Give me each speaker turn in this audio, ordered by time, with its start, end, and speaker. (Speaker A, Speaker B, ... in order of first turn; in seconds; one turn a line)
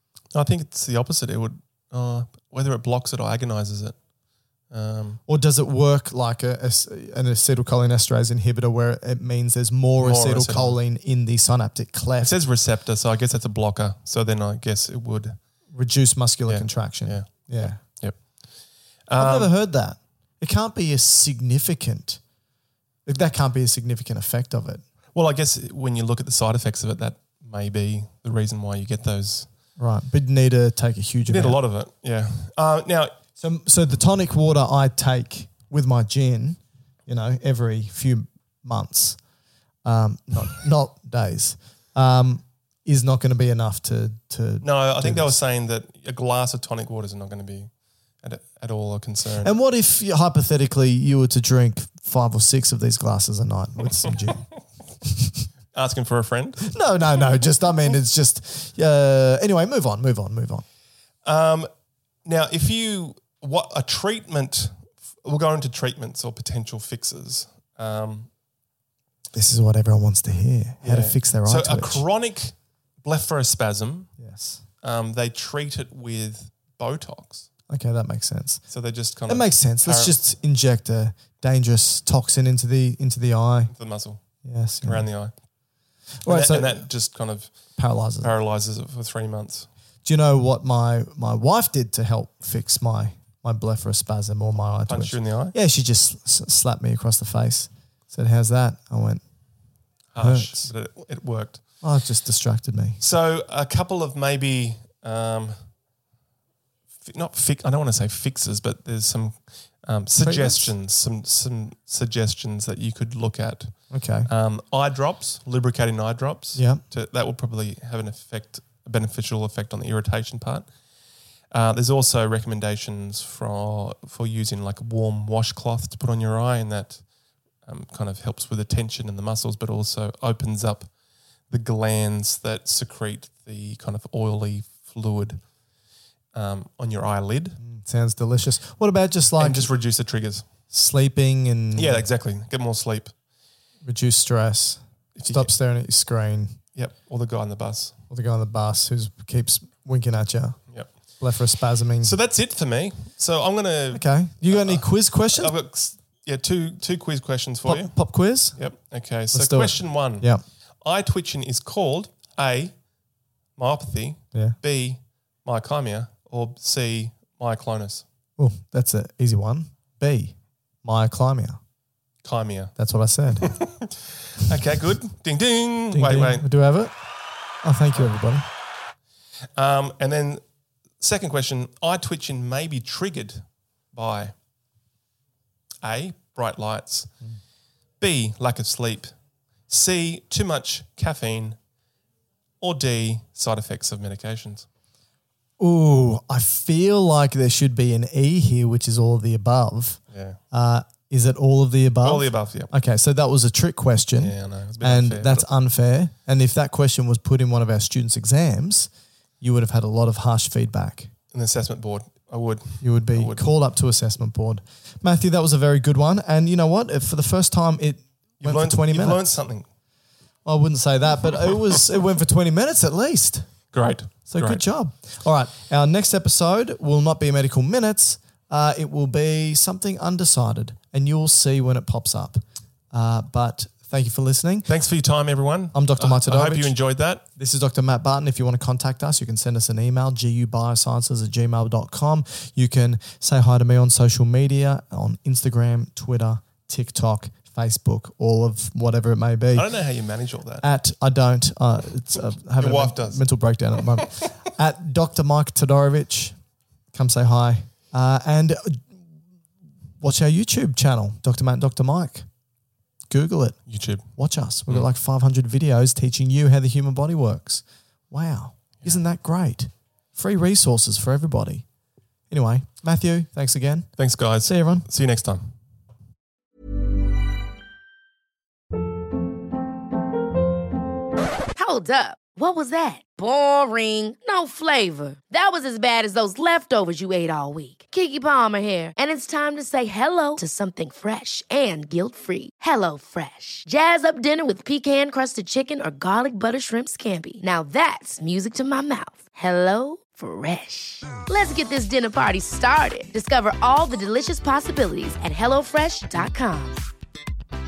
Speaker A: 0.3-4.0
Speaker A: 4.7-5.2
Speaker B: 5.3-12.3
Speaker A: 10.0-10.8
Speaker A: 12.2-15.4
Speaker B: 15.7-17.8
Speaker A: 16.5-18.6
Speaker A: 19.1-19.5
Speaker B: 19.1-22.2
Speaker B: 23.1-24.8
Speaker A: 25.1-29.5
Speaker B: 29.8-31.6
Speaker A: 31.3-33.1
Speaker B: 33.4-39.2
Speaker B: 39.8-45.4
Speaker A: 44.6-47.7
Speaker A: 48.2-49.5
Speaker B: 49.4-54.5
Speaker A: 55.7-56.8
Speaker B: 56.7-60.6
Speaker A: 61.2-61.7
Speaker A: 62.2-68.3
Speaker B: 69.3-72.0
Speaker A: 70.8-74.1
Speaker B: 74.2-74.6
Speaker A: 74.8-77.5
Speaker B: 77.7-78.6
Speaker A: 78.7-80.2
Speaker B: 79.2-83.7
Speaker A: 83.7-84.2
Speaker B: 84.4-85.1
Speaker A: 84.8-85.3
Speaker B: 86.2-86.8
Speaker A: 86.2-89.7
Speaker B: 87.8-88.3
Speaker B: 90.0-99.2
Speaker A: 94.9-95.5
Speaker A: 100.1-101.6
Speaker B: 100.2-100.7
Speaker B: 101.8-103.0
Speaker A: 103.0-105.6
Speaker A: 107.0-120.7
Speaker B: 110.2-110.7
Speaker B: 113.9-114.3
Speaker B: 116.5-116.8
Speaker A: 121.5-127.0
Speaker A: 127.6-130.9
Speaker A: 131.5-135.4
Speaker A: 136.3-137.6
Speaker B: 137.6-139.7
Speaker A: 139.4-140.4
Speaker B: 140.7-142.1
Speaker A: 141.7-143.1
Speaker B: 143.8-146.6
Speaker A: 145.2-145.5
Speaker A: 146.7-147.9
Speaker B: 148.1-150.6
Speaker B: 151.2-152.1
Speaker A: 152.0-158.0
Speaker B: 153.9-155.5
Speaker B: 157.6-158.6
Speaker A: 158.5-160.3
Speaker B: 159.3-160.4
Speaker A: 160.8-162.8
Speaker A: 163.6-168.0
Speaker B: 168.4-171.6
Speaker A: 172.2-172.7
Speaker B: 172.8-173.5
Speaker A: 173.3-176.4
Speaker B: 175.9-176.9
Speaker B: 177.6-178.5
Speaker A: 179.6-180.4
Speaker A: 181.0-184.3
Speaker A: 185.8-187.1
Speaker A: 188.0-189.1
Speaker A: 189.7-191.6
Speaker A: 192.6-194.7
Speaker B: 195.6-200.0
Speaker A: 200.1-200.4
Speaker B: 200.5-208.9
Speaker A: 202.0-202.7
Speaker A: 204.2-205.4
Speaker B: 209.4-211.1
Speaker A: 211.3-213.4
Speaker B: 212.8-219.4
Speaker A: 218.4-219.7
Speaker B: 220.4-223.5
Speaker A: 223.7-224.6
Speaker B: 224.3-232.4
Speaker B: 232.9-234.7
Speaker A: 234.7-237.2
Speaker B: 235.7-236.8
Speaker B: 237.3-249.8
Speaker A: 249.5-250.7
Speaker B: 250.6-256.4
Speaker A: 252.6-253.2
Speaker B: 256.9-258.9
Speaker B: 260.0-262.2
Speaker B: 263.1-271.6
Speaker A: 263.7-264.1
Speaker B: 272.3-274.9
Speaker A: 274.0-275.5
Speaker C: 281.5-306.8